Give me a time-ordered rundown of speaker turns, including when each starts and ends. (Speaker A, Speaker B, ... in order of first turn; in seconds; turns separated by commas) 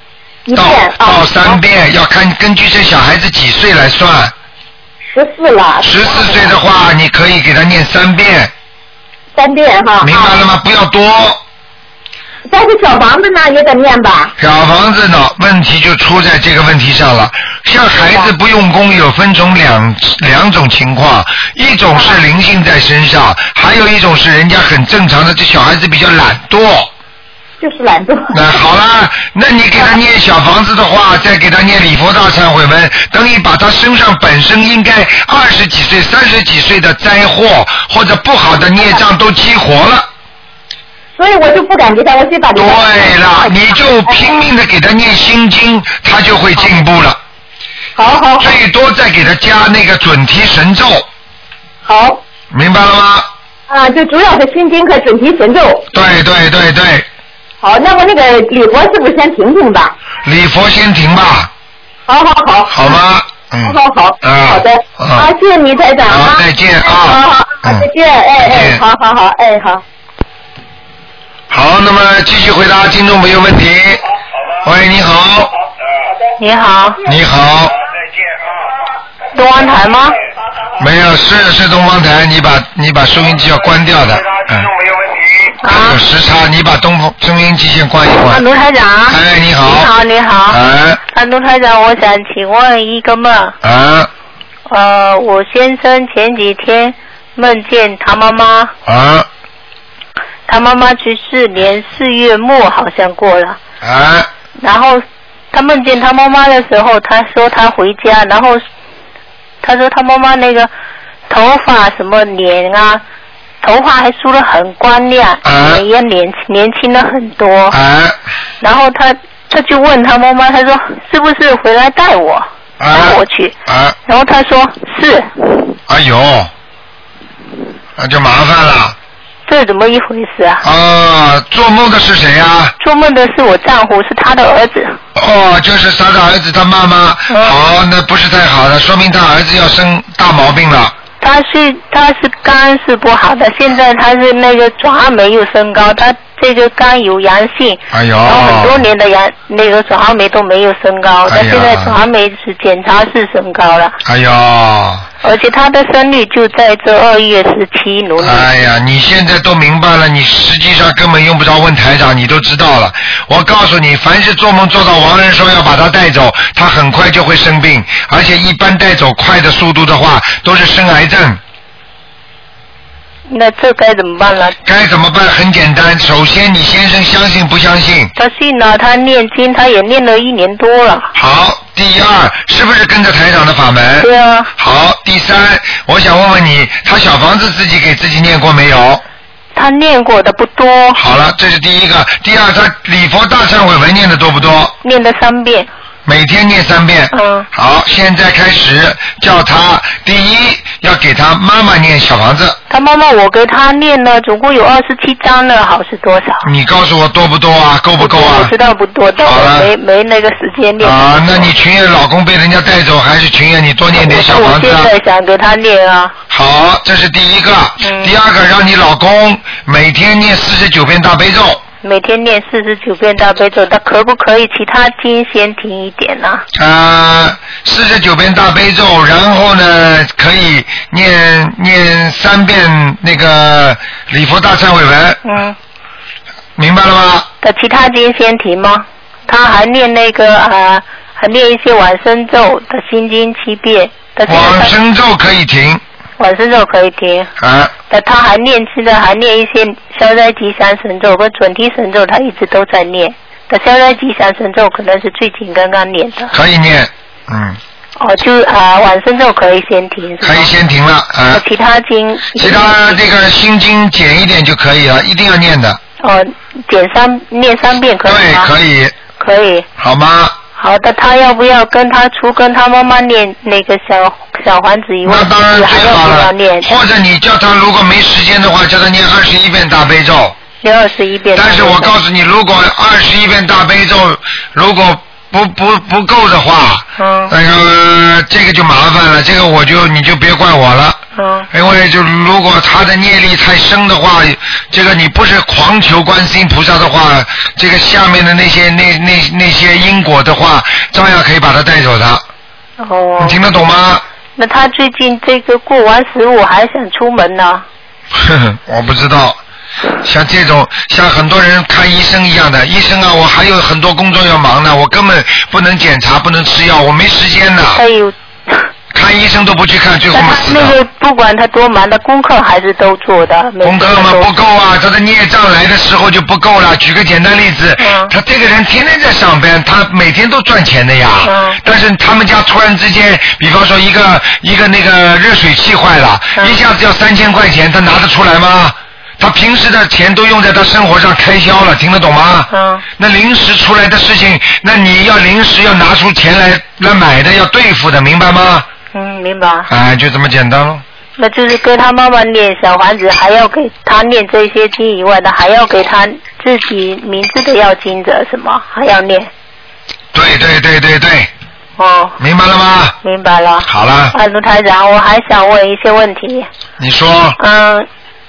Speaker A: 0.5-1.6, Speaker B: 0.5-4.3, Speaker A: 5.0-6.6, Speaker B: 5.8-8.5, Speaker A: 9.3-10.4, Speaker B: 10.0-11.4, Speaker A: 12.5-14.3, Speaker B: 14.4-26.9, Speaker A: 18.0-18.3, Speaker A: 21.9-22.2, Speaker A: 27.6-28.5, Speaker B: 28.3-40.1, Speaker A: 41.2-44.3, Speaker B: 42.5-47.2, Speaker A: 48.0-48.5, Speaker B: 48.4-51.1, Speaker A: 51.9-52.2, Speaker B: 52.5-53.3, Speaker A: 53.7-55.9, Speaker B: 55.9-57.1, Speaker A: 57.6-60.0, Speaker B: 60.2-61.5, Speaker A: 62.1-63.0, Speaker B: 62.7-65.3, Speaker A: 63.6-69.8, Speaker B: 66.1-68.8, Speaker B: 71.5-74.0, Speaker B: 74.6-75.5, Speaker C: 76.4-77.0, Speaker B: 77.0-77.8, Speaker C: 79.3-80.2, Speaker B: 80.8-84.8, Speaker C: 85.6-86.0, Speaker B: 85.7-88.5, Speaker C: 88.3-93.6, Speaker B: 89.1-89.9, Speaker B: 90.5-91.0, Speaker B: 93.6-94.1, Speaker C: 94.7-98.7, Speaker B: 98.9-99.3, Speaker C: 100.5-103.6, Speaker B: 103.8-104.3, Speaker C: 104.6-108.6, Speaker C: 109.6-110.7, Speaker C: 111.3-113.0, Speaker C: 113.6-117.8, Speaker B: 115.4-115.8, Speaker B: 117.7-118.2, Speaker C: 118.6-123.5, Speaker B: 122.8-124.0, Speaker C: 124.1-125.8, Speaker B: 125.9-126.5, Speaker B: 128.0-129.0, Speaker C: 129.5-130.6, Speaker B: 130.6-132.7, Speaker C: 132.8-135.0, Speaker B: 135.2-140.9, Speaker C: 137.3-137.6, Speaker C: 141.2-154.0, Speaker B: 147.9-148.8, Speaker B: 151.3-152.0, Speaker B: 154.1-155.1, Speaker C: 155.2-158.5, Speaker B: 158.2-171.4, Speaker C: 173.3-174.6, Speaker B: 174.7-178.1, Speaker C: 178.2-181.1, Speaker B: 181.1-189.0, Speaker C: 184.0-184.5, Speaker C: 189.6-191.0, Speaker B: 190.9-194.8, Speaker C: 194.8-195.7, Speaker B: 196.1-202.6, Speaker C: 197.1-197.5, Speaker C: 202.7-206.5, Speaker B: 206.4-208.5, Speaker C: 208.0-211.5, Speaker B: 209.2-209.7, Speaker B: 210.8-214.9, Speaker C: 213.9-216.1, Speaker B: 216.3-221.6, Speaker C: 217.8-218.1, Speaker C: 221.8-226.4, Speaker B: 226.5-235.2, Speaker C: 235.2-235.6, Speaker B: 236.6-237.3, Speaker C: 237.4-244.7, Speaker B: 244.3-245.8, Speaker C: 246.2-247.3, Speaker B: 247.4-247.7, Speaker C: 247.9-256.3, Speaker B: 256.3-257.6, Speaker C: 258.0-260.5, Speaker B: 260.2-261.4, Speaker C: 261.3-263.0, Speaker B: 262.4-265.8, Speaker C: 266.0-268.5, Speaker B: 268.1-269.0, Speaker C: 269.1-269.7, Speaker B: 269.8-270.4, Speaker C: 270.6-276.7, Speaker B: 275.1-280.4, Speaker C: 280.6-281.9, Speaker B: 281.4-291.0, Speaker C: 287.0-287.3, Speaker C: 291.1-291.5, Speaker B: 291.5-302.2, Speaker C: 302.8-303.4, Speaker B: 303.2-304.0, Speaker C: 304.4-307.6, Speaker B: 308.1-309.4, Speaker B: 310.0-317.8, Speaker C: 317.7-318.7, Speaker B: 318.9-320.8, Speaker C: 320.1-324.3, Speaker B: 323.6-348.7, Speaker C: 327.8-328.1, Speaker C: 331.2-331.6, Speaker C: 342.5-342.8, Speaker C: 348.9-349.7, Speaker B: 349.7-350.8, Speaker C: 351.2-359.3, Speaker B: 360.1-361.3, Speaker C: 361.8-362.2, Speaker B: 362.2-363.0, Speaker C: 363.0-366.5, Speaker B: 363.7-364.1, Speaker B: 366.8-367.4, Speaker C: 367.4-367.9